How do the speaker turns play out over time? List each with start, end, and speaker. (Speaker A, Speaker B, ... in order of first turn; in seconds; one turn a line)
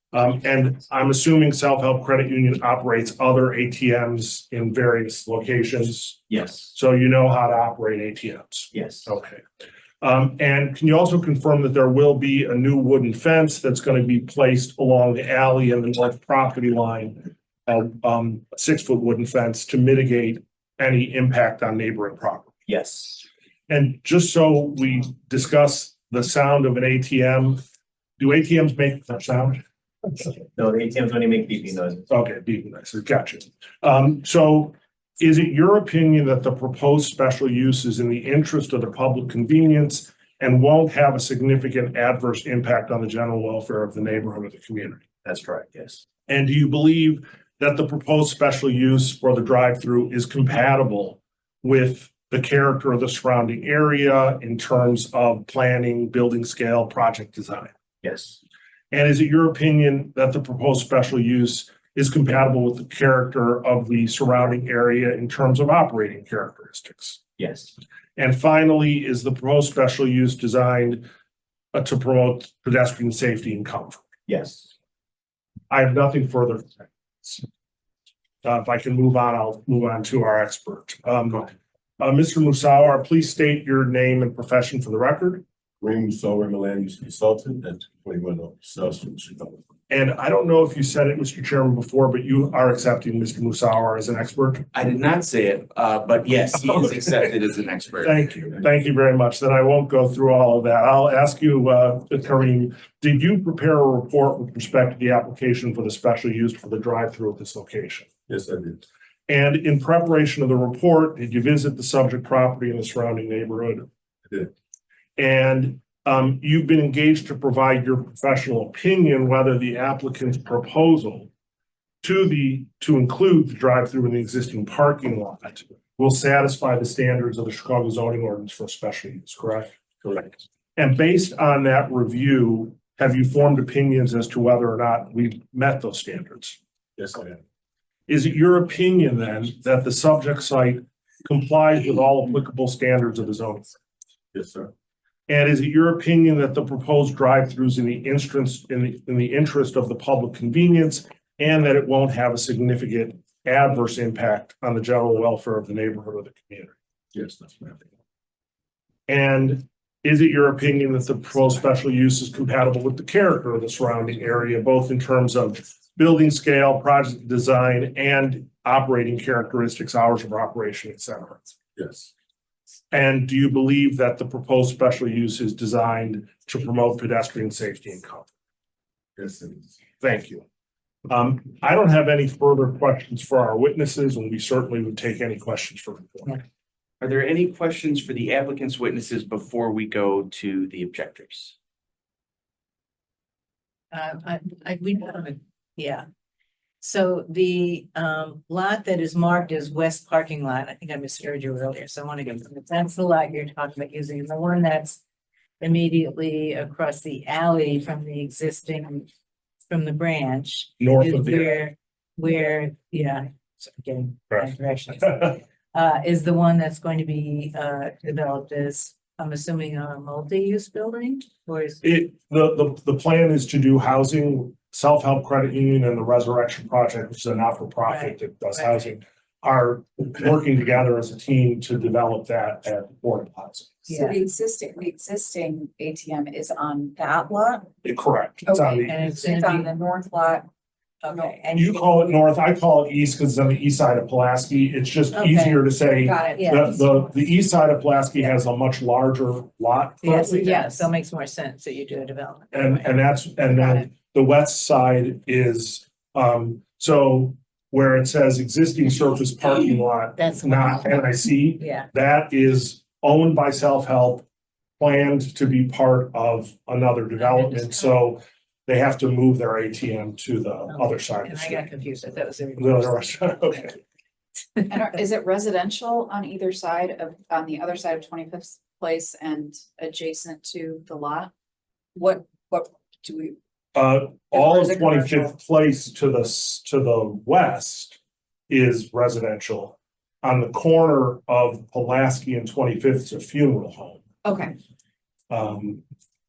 Speaker A: 0.1-9.4
Speaker B: 6.3-6.7
Speaker B: 8.7-9.1
Speaker A: 10.0-22.6
Speaker B: 22.7-23.2
Speaker A: 23.7-27.6
Speaker A: 28.2-29.6
Speaker B: 30.4-32.1
Speaker A: 32.1-45.1
Speaker B: 45.2-46.0
Speaker A: 46.3-57.7
Speaker B: 58.0-58.4
Speaker A: 58.9-67.2
Speaker B: 67.4-67.8
Speaker A: 68.2-71.1
Speaker A: 71.7-74.1
Speaker B: 74.3-74.7
Speaker A: 75.7-77.5
Speaker A: 78.4-85.4
Speaker C: 85.8-89.6
Speaker A: 89.9-94.7
Speaker D: 94.7-98.6
Speaker A: 98.0-108.1
Speaker C: 108.3-108.8
Speaker A: 109.3-113.9
Speaker A: 115.2-121.3
Speaker A: 122.0-129.8
Speaker C: 130.0-130.3
Speaker A: 130.8-136.6
Speaker C: 137.0-137.4
Speaker A: 138.1-143.8
Speaker C: 144.3-144.7
Speaker A: 145.3-156.8
Speaker C: 157.2-157.7
Speaker A: 159.1-171.4
Speaker C: 171.8-172.1
Speaker A: 172.9-178.3
Speaker C: 179.2-179.7
Speaker A: 180.0-180.4
Speaker A: 181.1-186.4
Speaker D: 187.0-191.5
Speaker E: 193.9-196.1
Speaker E: 196.8-205.0
Speaker E: 205.6-209.1
Speaker E: 209.7-221.8
Speaker A: 210.8-211.6
Speaker A: 221.8-233.8
Speaker E: 227.9-228.9
Speaker F: 233.9-237.7
Speaker E: 233.9-234.2
Speaker A: 237.8-239.0
Speaker F: 238.5-240.5
Speaker E: 238.9-239.7
Speaker E: 241.0-242.1
Speaker F: 241.1-241.4
Speaker A: 241.5-250.5
Speaker E: 245.1-245.7
Speaker F: 246.0-247.1
Speaker E: 246.3-246.7
Speaker E: 250.0-253.1
Speaker F: 250.4-250.9
Speaker A: 252.5-264.3
Speaker F: 253.5-253.9
Speaker E: 259.6-261.9
Speaker A: 264.8-271.7
Speaker E: 267.2-267.8
Speaker E: 270.7-273.2
Speaker A: 272.6-273.8
Speaker F: 274.7-281.3
Speaker F: 281.9-283.4
Speaker A: 283.8-294.0
Speaker F: 284.3-285.3
Speaker F: 294.2-294.6
Speaker A: 295.3-295.8